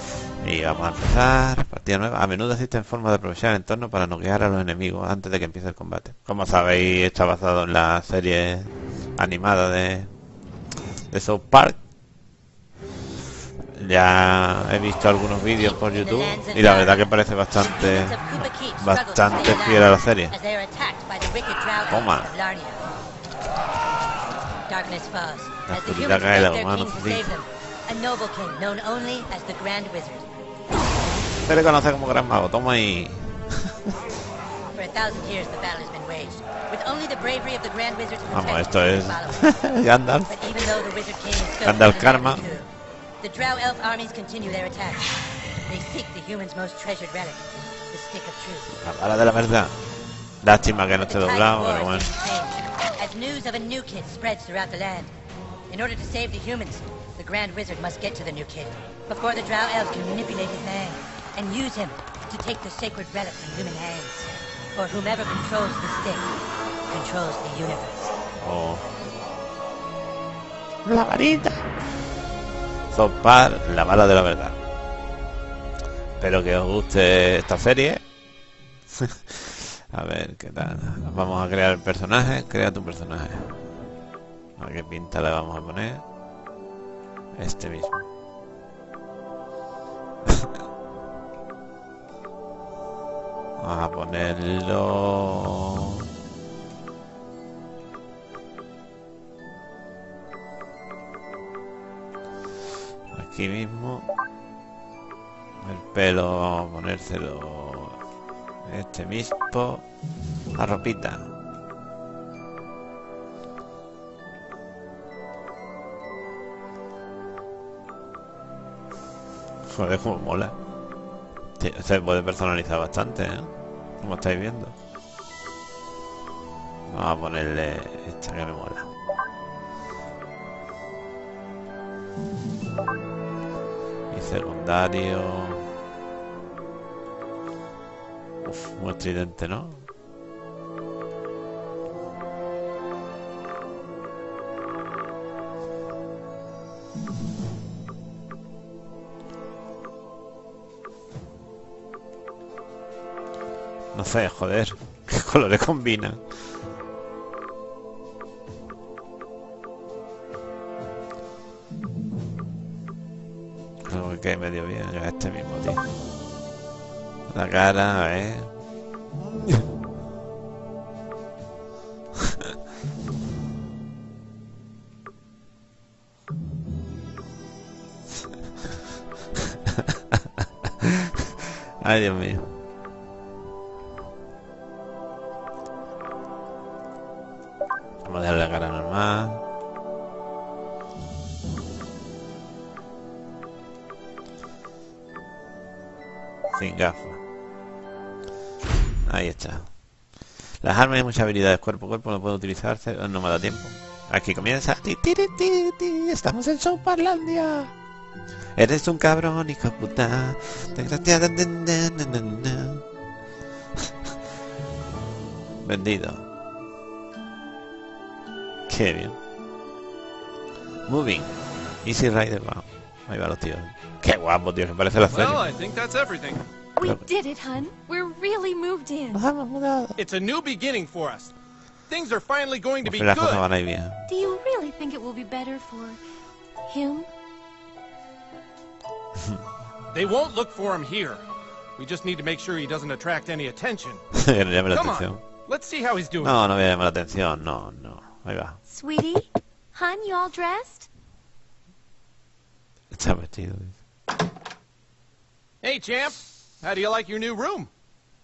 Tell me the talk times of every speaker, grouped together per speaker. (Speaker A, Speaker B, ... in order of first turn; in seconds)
Speaker A: 0.4-10.1, 11.1-11.8, 13.7-20.3, 21.9-22.3, 25.7-27.3, 31.4-33.9, 38.3-40.3, 41.6-42.4, 48.8-49.7, 50.4-52.1, 68.4-68.8, 70.8-71.6, 72.9-74.6, 76.2-78.0, 78.9-83.9, 84.6-86.0, 87.3-88.1, 93.6-95.9, 103.1-104.1, 105.6-108.0, 108.7-109.8, 110.6-111.3, 119.6-120.6, 121.6-124.8, 126.9-128.9, 134.1-135.7, 138.4-139.9, 153.9-156.2, 163.8-165.8, 167.3-168.5, 169.2-169.7, 179.7-180.9, 181.8-182.5, 188.0-189.4, 196.5-197.2, 199.1-199.7, 200.6-207.7, 208.6-212.8, 215.6-216.2, 218.7-219.2, 220.9-221.3, 221.8-225.4, 226.8-227.1, 229.1-230.0, 232.8-234.0, 244.1-245.2, 246.2-248.6, 252.9-253.8
Speaker B: 15.6-22.9, 24.7-30.3, 34.7-42.7, 43.2-45.1, 45.7-48.7, 51.0-55.1, 55.7-66.3, 66.9-68.1
Speaker C: 225.1-226.5, 230.0-231.3, 231.9-233.4, 239.9-241.2, 241.8-244.0, 244.7-246.4, 255.6-257.7
Speaker D: 226.8-229.2, 234.1-236.0, 236.7-237.1, 248.7-250.9